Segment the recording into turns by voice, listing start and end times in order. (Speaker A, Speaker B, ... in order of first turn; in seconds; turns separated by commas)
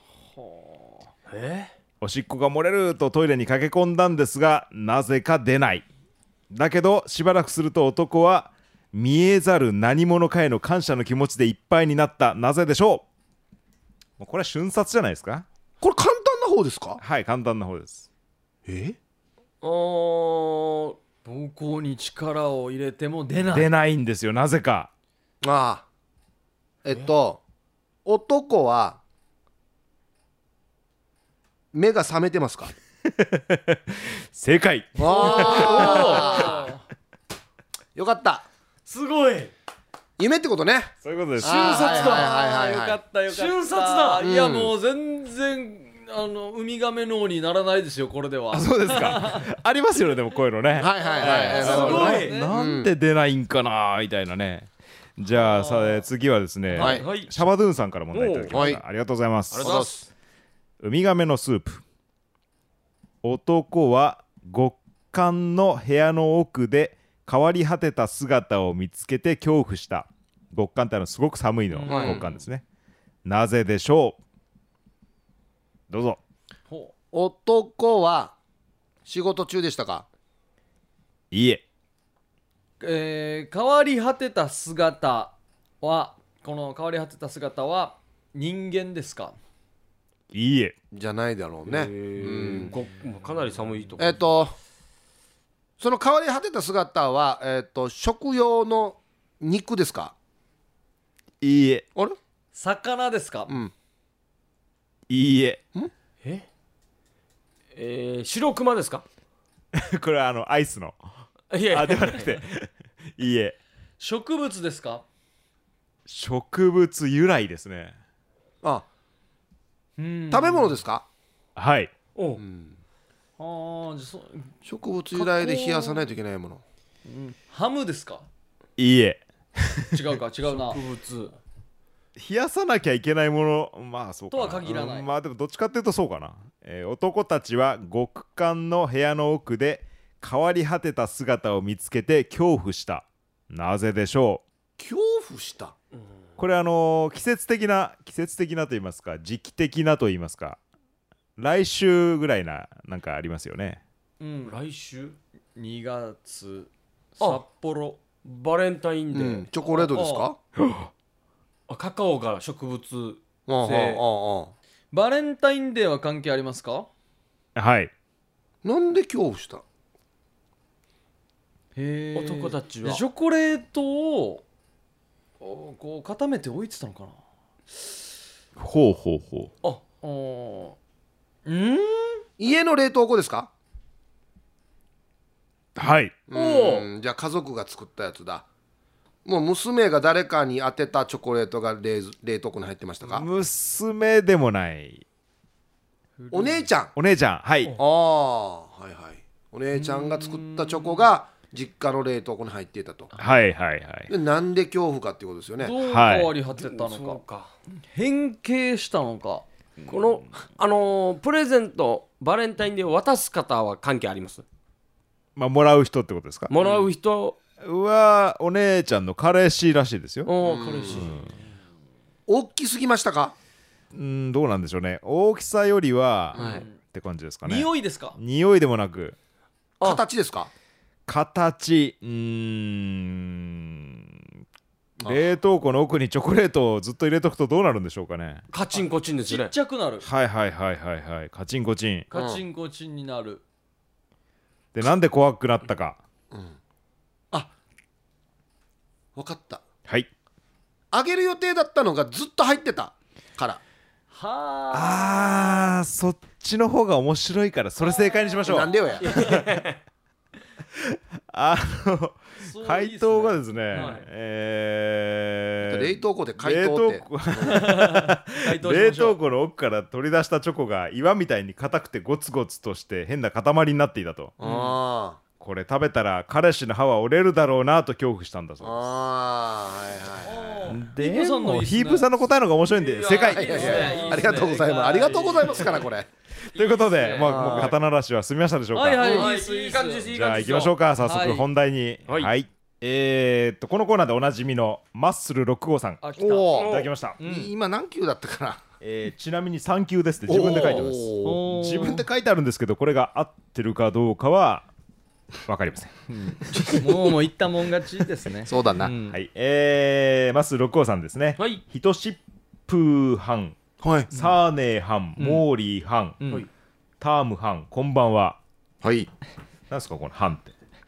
Speaker A: 0.4-1.1, Speaker B: 1.3-1.7, Speaker C: 2.0-5.9, Speaker C: 6.5-13.1, Speaker C: 14.2-15.5, Speaker D: 15.8-17.0, Speaker C: 17.0-18.1, Speaker D: 18.7-19.0, Speaker B: 19.6-21.0, Speaker A: 21.2-23.7, Speaker C: 23.5-24.9, Speaker D: 25.4-25.9, Speaker D: 26.9-27.4, Speaker D: 28.1-29.0, Speaker D: 31.7-32.7, Speaker C: 33.1-36.1, Speaker D: 35.0-36.7, Speaker A: 35.1-36.8, Speaker B: 35.6-36.4, Speaker D: 38.0-38.5, Speaker B: 38.9-39.5, Speaker D: 40.2-43.0, Speaker C: 41.0-41.9, Speaker B: 41.4-42.3, Speaker A: 41.5-49.4, Speaker B: 43.3-44.2, Speaker D: 44.2-44.7, Speaker C: 48.5-59.8, Speaker D: 50.8-52.9, Speaker A: 51.0-52.5, Speaker B: 51.5-52.3, Speaker A: 55.3-56.0, Speaker B: 56.8-57.5, Speaker D: 56.8-57.0, Speaker B: 58.1-58.8, Speaker D: 58.5-58.8, Speaker B: 59.5-60.0, Speaker D: 59.6-60.1, Speaker C: 60.8-61.8, Speaker C: 63.2-72.6, Speaker A: 71.7-72.2, Speaker B: 71.9-72.2, Speaker C: 73.2-74.2, Speaker C: 75.9-76.2, Speaker D: 77.1-78.3, Speaker D: 79.1-80.1, Speaker C: 81.3-81.6, Speaker A: 82.8-89.3, Speaker C: 90.3-90.8, Speaker D: 90.9-92.8, Speaker B: 91.7-94.2, Speaker D: 94.0-94.5, Speaker D: 95.8-100.1, Speaker C: 101.4-101.9, Speaker A: 102.5-103.5, Speaker D: 103.5-103.7, Speaker C: 105.1-105.6, Speaker B: 107.8-109.0, Speaker C: 109.7-111.0, Speaker B: 111.5-112.3, Speaker C: 111.7-113.6, Speaker A: 114.0-115.0, Speaker C: 116.1-118.0, Speaker A: 120.0-120.8, Speaker D: 120.3-121.1, Speaker C: 121.6-121.9, Speaker B: 122.2-122.4, Speaker D: 122.4-122.8, Speaker A: 123.4-124.5, Speaker D: 124.7-126.6, Speaker A: 125.1-126.1, Speaker A: 127.1-128.3, Speaker C: 128.8-130.0, Speaker A: 129.9-130.8, Speaker B: 130.5-131.3, Speaker C: 132.2-144.4, Speaker A: 134.3-135.1, Speaker D: 144.8-145.7, Speaker C: 146.4-150.6, Speaker C: 151.4-153.8, Speaker A: 154.2-154.6, Speaker B: 154.4-155.2, Speaker A: 155.6-158.0, Speaker B: 158.2-159.5, Speaker D: 159.1-160.4, Speaker A: 159.7-160.3, Speaker C: 160.6-160.9, Speaker B: 161.7-164.0, Speaker D: 163.5-164.5, Speaker A: 164.9-166.9, Speaker C: 167.6-167.9, Speaker D: 168.6-169.6, Speaker A: 171.8-174.4, Speaker B: 172.2-173.0, Speaker A: 175.4-177.2, Speaker C: 178.6-179.5, Speaker A: 180.0-180.8, Speaker A: 181.5-182.2, Speaker D: 182.4-183.5, Speaker C: 185.8-186.2, Speaker D: 186.3-188.4, Speaker A: 186.3-186.9, Speaker D: 189.2-193.3, Speaker C: 193.0-195.0, Speaker A: 196.2-196.7, Speaker D: 196.3-196.9, Speaker C: 196.9-197.7, Speaker D: 197.8-203.1, Speaker A: 199.7-201.1, Speaker C: 203.2-204.1, Speaker D: 204.1-205.7, Speaker A: 205.6-207.2, Speaker C: 205.8-206.3, Speaker B: 206.6-207.5, Speaker A: 207.9-210.2, Speaker B: 209.9-214.4, Speaker C: 215.4-216.5, Speaker B: 216.5-217.4, Speaker C: 217.6-220.3, Speaker B: 220.3-221.4, Speaker D: 220.4-221.1, Speaker C: 220.9-221.3, Speaker D: 222.3-223.3, Speaker C: 223.9-229.2, Speaker B: 226.3-226.7, Speaker A: 227.4-228.2, Speaker D: 229.8-230.5, Speaker C: 231.1-234.2, Speaker C: 235.1-238.4, Speaker B: 238.5-239.5, Speaker A: 239.3-240.1, Speaker C: 240.0-242.1, Speaker A: 242.1-243.4, Speaker D: 242.1-242.4, Speaker C: 244.7-246.0, Speaker D: 246.3-246.6, Speaker D: 249.2-249.6, Speaker D: 250.9-253.6, Speaker A: 254.1-255.7, Speaker C: 254.7-259.6, Speaker D: 258.4-259.2, Speaker A: 259.0-259.3, Speaker B: 259.0-259.8, Speaker C: 260.8-274.3, Speaker A: 262.4-264.0, Speaker B: 263.7-264.0, Speaker D: 265.6-267.6, Speaker A: 267.4-269.2, Speaker D: 274.4-275.2, Speaker A: 274.4-274.8, Speaker C: 275.4-278.9, Speaker D: 278.6-280.6, Speaker A: 280.2-282.1, Speaker C: 280.7-283.8, Speaker B: 282.7-285.7, Speaker A: 283.1-285.9, Speaker D: 283.4-286.1, Speaker C: 286.5-289.2, Speaker A: 286.9-287.6, Speaker B: 287.0-287.5, Speaker D: 287.2-287.8, Speaker A: 288.7-290.1, Speaker B: 289.0-290.8, Speaker D: 289.0-289.3, Speaker C: 290.1-296.0, Speaker A: 291.0-291.5, Speaker A: 296.0-296.6, Speaker D: 296.2-296.7, Speaker B: 296.5-296.9, Speaker C: 296.6-297.2, Speaker A: 297.2-297.5, Speaker D: 297.2-298.6, Speaker C: 298.8-304.7, Speaker D: 300.3-301.4, Speaker A: 301.2-302.0, Speaker C: 305.5-305.9, Speaker A: 306.1-309.2, Speaker D: 308.5-308.9, Speaker C: 309.1-313.6, Speaker D: 313.8-314.1, Speaker C: 314.1-316.2, Speaker A: 315.2-315.4, Speaker A: 316.2-316.5, Speaker C: 317.0-318.4, Speaker D: 318.8-319.1, Speaker C: 319.7-320.5